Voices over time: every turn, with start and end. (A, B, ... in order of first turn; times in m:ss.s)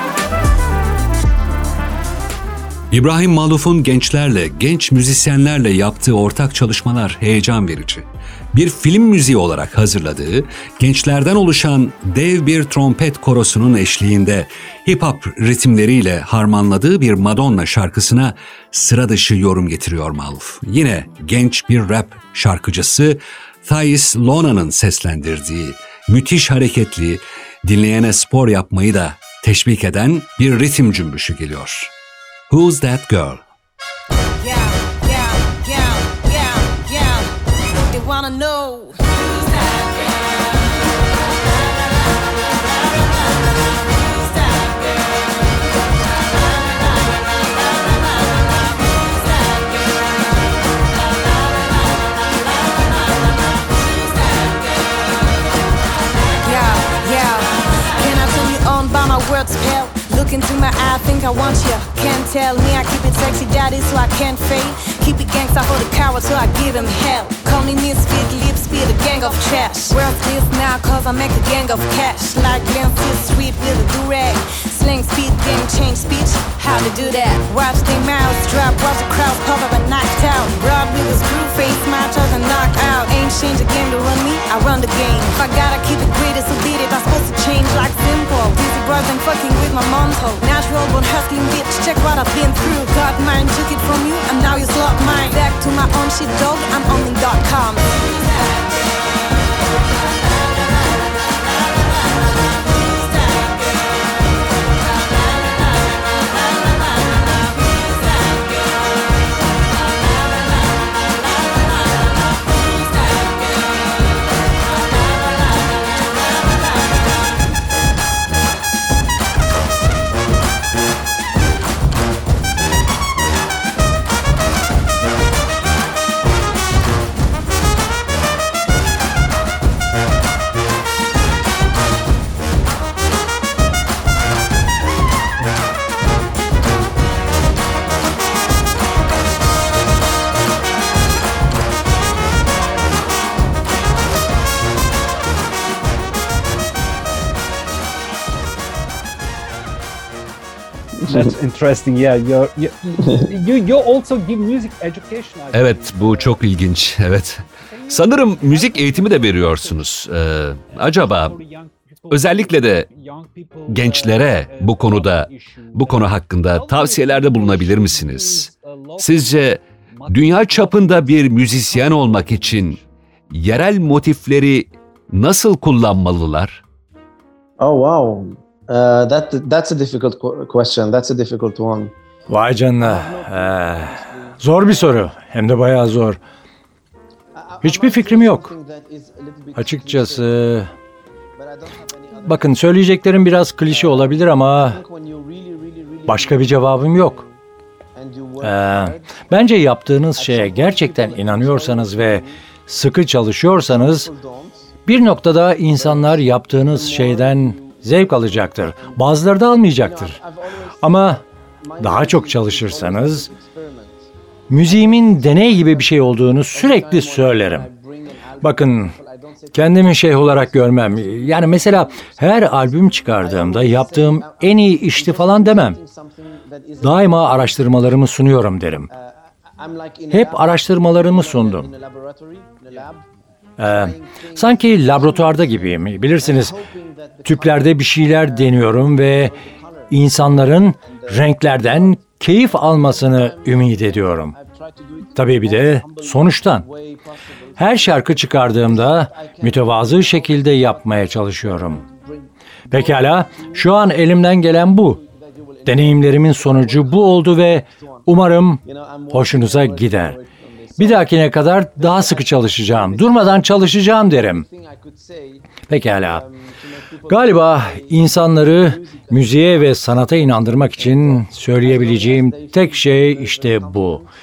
0:02.9-0:31.9 A
0:32.5-0:33.4 A
0:34.4-0:37.3 B
0:37.9-0:40.0 B
0:44.1-0:44.9 B
0:49.1-0:49.6 B
0:51.3-0:51.7 B
0:54.0-0:54.5 B
0:56.4-1:38.6 B
1:43.2-1:43.4 B
2:31.0-2:31.3 C
2:31.1-2:36.6 D
2:35.5-2:41.4 A
2:37.5-2:52.9 D
2:42.1-2:42.9 A
2:43.7-2:52.8 A
2:53.3-2:56.6 A
2:57.6-3:01.9 C
3:02.3-3:06.2 E
3:02.8-3:05.1 C
3:07.3-3:10.6 C
3:07.6-3:08.5 E
3:09.6-3:10.7 E
3:11.4-3:12.8 C
3:12.2-3:14.8 E
3:13.7-3:17.4 C
3:16.1-3:17.2 E
3:18.0-3:19.2 C
3:18.4-3:24.1 E
3:20.2-3:22.4 C
3:23.4-3:24.8 C
3:24.8-3:30.2 E
3:25.7-3:29.1 C
3:29.7-3:34.1 C
3:30.8-3:31.2 E
3:31.8-3:33.3 E
3:34.5-3:37.7 E
3:34.6-3:48.0 C
3:38.4-3:38.9 E
3:39.5-3:45.8 E
3:46.8-3:48.9 E
3:48.9-3:53.0 C
3:50.1-3:51.7 E
3:53.6-3:56.5 E
3:53.6-4:21.2 C
3:57.2-3:59.3 E
3:59.9-4:04.3 E
4:05.1-4:06.6 E
4:07.6-4:11.8 E
4:12.7-4:15.0 E
4:15.6-4:20.2 E
4:20.8-4:24.4 E
4:21.7-4:34.1 C
4:25.7-4:26.2 E
4:27.1-4:34.0 E